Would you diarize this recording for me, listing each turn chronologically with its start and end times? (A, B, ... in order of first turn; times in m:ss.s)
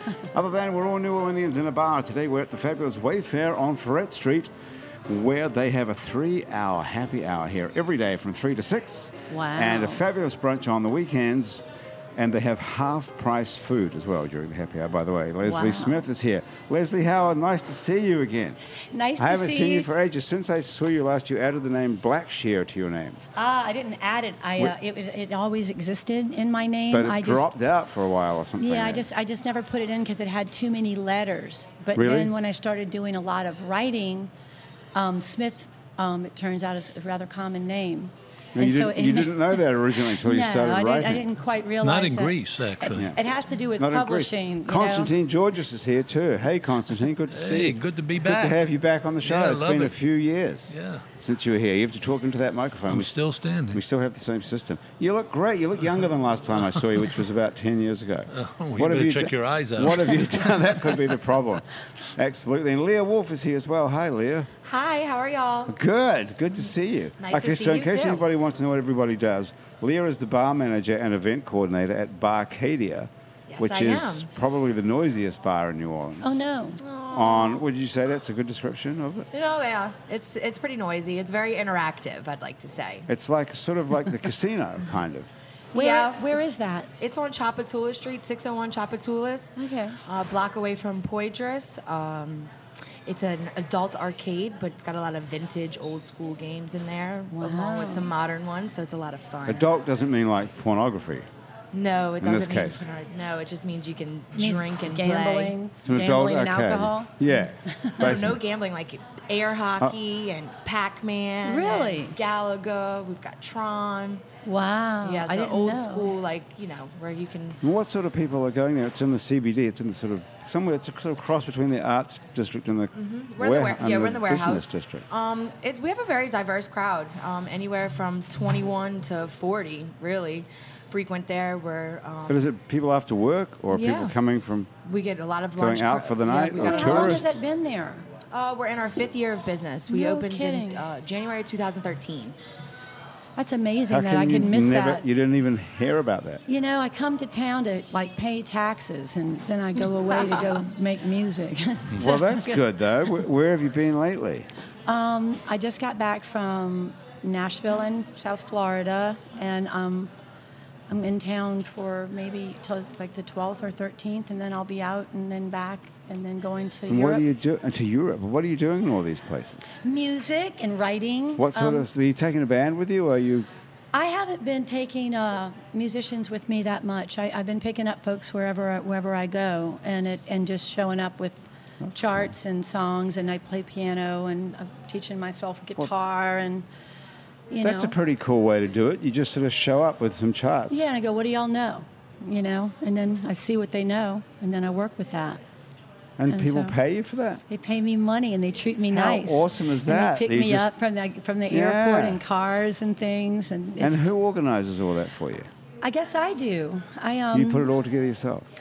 0:00.3-0:04.5 A
0:05.1-0:11.6 A
0:09.3-0:10.0 B
0:12.2-0:18.6 A
0:15.4-0:16.0 B
0:18.9-0:19.9 B
0:19.2-0:23.2 A
0:23.4-0:27.5 B
0:26.9-0:29.0 A
0:28.6-0:34.3 B
0:32.0-0:32.3 A
0:35.0-0:45.1 B
0:38.5-0:41.2 A
0:41.8-0:43.1 C
0:43.8-0:53.2 A
0:47.3-0:48.6 C
0:49.2-0:50.0 C
0:50.7-0:51.0 C
0:52.9-0:53.8 C
0:53.7-1:04.5 A
0:58.3-1:00.5 C
1:04.6-1:05.8 D
1:05.7-1:16.4 A
1:07.2-1:08.2 D
1:13.5-1:14.3 D
1:16.2-1:16.8 B
1:16.8-1:17.6 D
1:17.1-1:19.3 A
1:19.3-1:23.1 D
1:23.1-1:25.3 A
1:25.7-1:26.4 D
1:25.7-1:26.9 B
1:27.0-1:32.5 D
1:29.6-1:30.0 B
1:33.0-1:39.7 D
1:37.3-1:38.1 B
1:39.5-1:41.3 A
1:41.7-1:45.6 D
1:42.2-1:42.8 A
1:44.4-1:48.2 B
1:45.8-1:48.4 A
1:48.0-1:54.2 D
1:51.4-1:52.2 B
1:54.4-1:56.1 B
1:55.0-1:57.6 D
1:57.6-2:05.0 A
2:02.9-2:12.4 D
2:12.3-2:14.7 A
2:13.7-2:14.1 D
2:14.8-2:17.3 D
2:15.6-2:17.4 A
2:16.6-2:18.1 B
2:18.3-2:22.4 D
2:19.9-2:20.8 B
2:23.4-2:25.0 B
2:23.9-2:26.4 A
2:26.5-2:32.2 B
2:32.0-2:34.5 A
2:34.9-2:40.1 B
2:40.9-2:47.2 B
2:46.9-2:49.8 A
2:49.8-2:51.9 B
2:51.4-2:53.5 A
2:53.9-3:06.7 B
3:01.8-3:02.3 A
3:07.5-3:07.9 B
3:07.6-3:10.9 A
3:10.7-3:15.4 B
3:16.2-3:17.4 A
3:16.3-3:16.8 B
3:17.5-3:24.1 B
3:18.9-3:20.7 A
3:21.5-3:22.2 A
3:23.8-3:25.5 A
3:25.8-3:27.7 B
3:27.3-3:28.5 A